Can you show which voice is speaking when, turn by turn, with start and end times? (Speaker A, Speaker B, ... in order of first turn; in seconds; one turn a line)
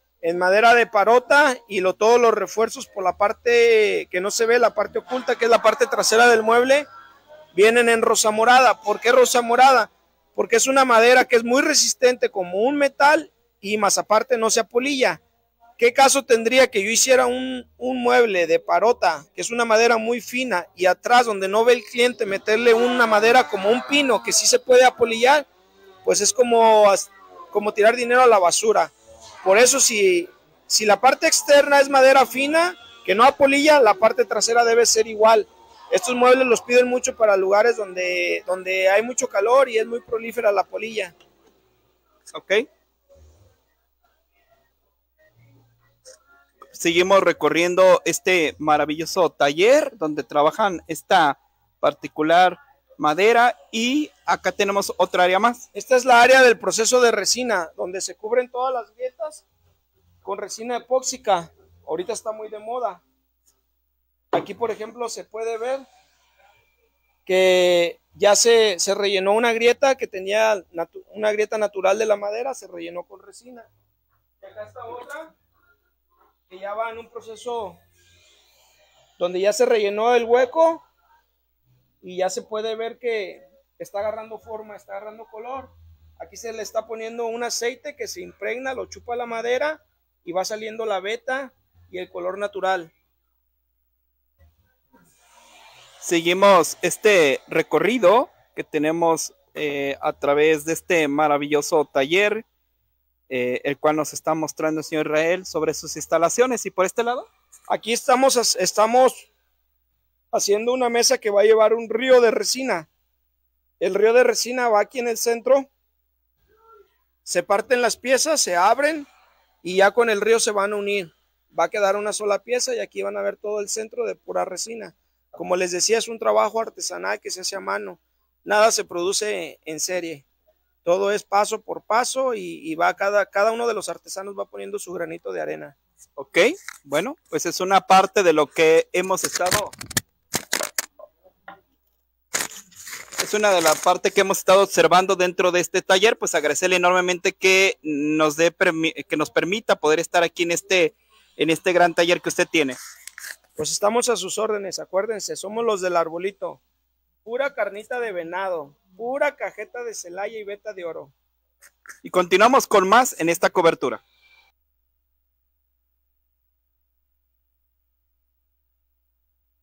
Speaker A: 0.2-6.9
Speaker A: 7.5-15.2
Speaker A: 15.8-25.5
Speaker A: 26.0-41.1
Speaker B: 42.3-42.6
Speaker B: 46.7-55.6
Speaker A: 55.7-59.4
Speaker A: 60.2-63.0
Speaker A: 64.3-65.9
Speaker A: 67.2-73.7
Speaker A: 74.4-75.3
Speaker A: 76.5-77.8
Speaker A: 79.2-80.8
Speaker A: 82.0-92.9
Speaker B: 96.0-102.4
Speaker B: 103.3-107.3
Speaker A: 107.7-109.3
Speaker A: 110.3-112.9
Speaker A: 113.8-115.7
Speaker A: 117.2-119.1
Speaker A: 119.6-130.2
Speaker A: 130.8-135.8
Speaker B: 136.2-139.7
Speaker B: 143.2-152.8
Speaker A: 153.6-156.6
Speaker A: 157.2-161.1
Speaker B: 162.0-164.0